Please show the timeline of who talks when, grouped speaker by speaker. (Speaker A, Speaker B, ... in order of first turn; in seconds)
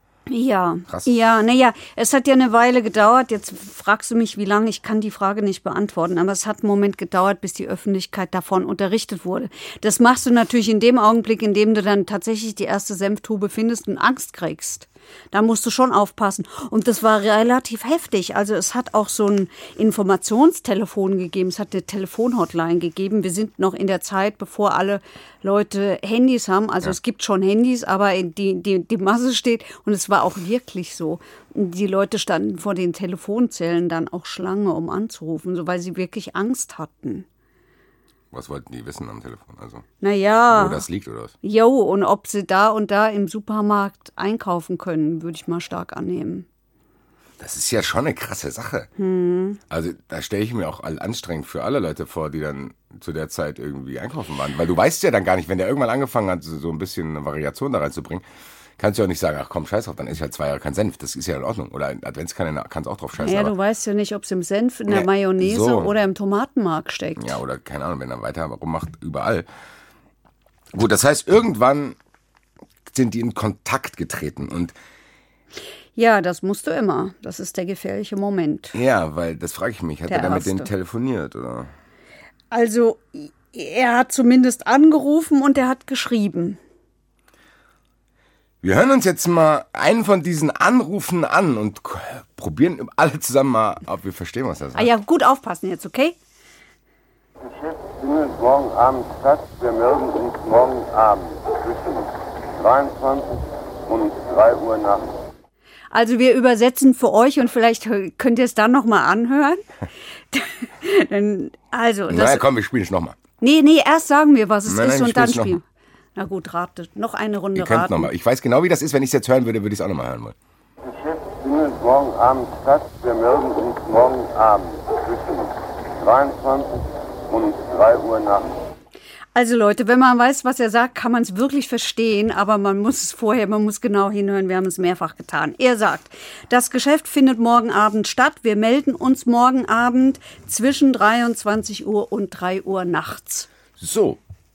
Speaker A: 0.3-37.2, 40.0-40.8, 41.4-46.5, 49.0-49.6, 63.2-67.4, 76.0-78.8, 80.1-80.7, 82.5-86.6, 94.8-96.2, 105.9-109.6, 110.3-112.4, 113.4-115.6, 116.2-118.1, 129.3-143.5
Speaker B: 38.3-39.8, 40.5-41.3, 47.4-48.9, 49.7-58.2, 58.8-63.5, 64.9-65.9, 67.2-69.5, 70.7-72.0, 72.9-74.8, 78.7-81.7, 88.6-94.9, 112.1-113.2, 114.7-115.6, 117.5-120.3, 143.8-144.2
Speaker C: 97.4-105.2, 120.8-128.6